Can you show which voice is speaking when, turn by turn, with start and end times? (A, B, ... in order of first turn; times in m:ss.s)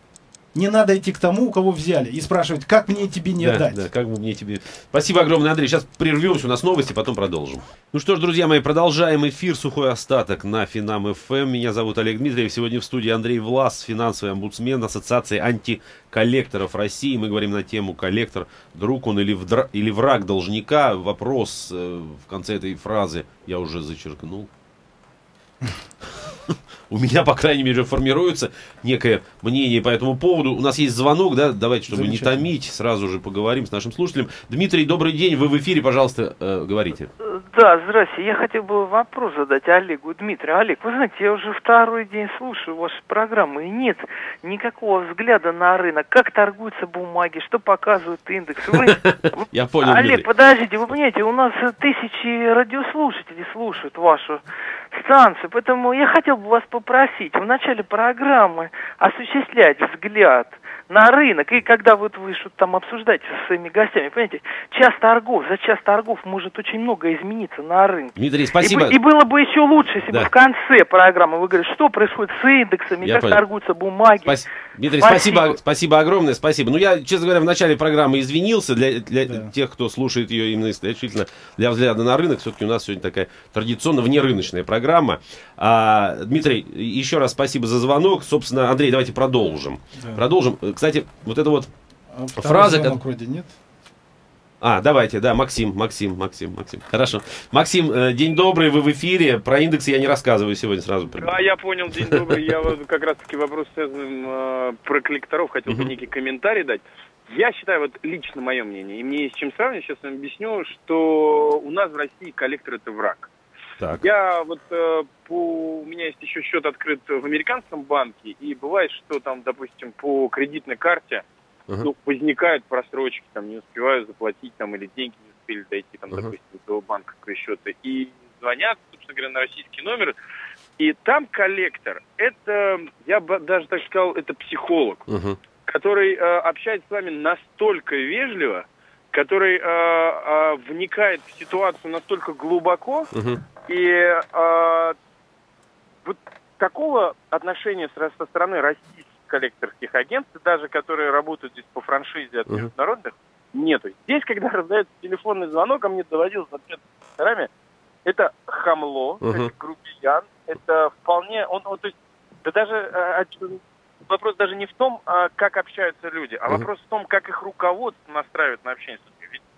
0:00.5-0:03.8 A
0:03.4-0:24.5 B
0:26.5-0:37.1 B
0:31.9-0:32.5 A
0:37.3-1:14.4 C
0:48.9-0:50.2 B
1:08.2-1:09.0 B
1:13.0-1:13.4 B
1:14.2-1:31.7 B
1:15.0-1:15.5 C
1:30.0-1:30.2 A
1:32.1-1:33.5 A
1:32.4-1:33.0 B
1:34.6-1:41.3 B
1:41.2-1:53.3 D
1:42.0-1:42.3 B
1:53.8-1:54.0 B
1:54.0-2:01.2 D
2:01.8-2:10.1 D
2:10.8-2:15.0 D
2:15.1-2:15.4 B
2:15.6-2:23.1 D
2:23.1-2:23.4 B
2:23.7-2:25.0 D
2:26.0-2:37.5 D
2:38.0-2:49.4 D
2:39.2-2:39.5 B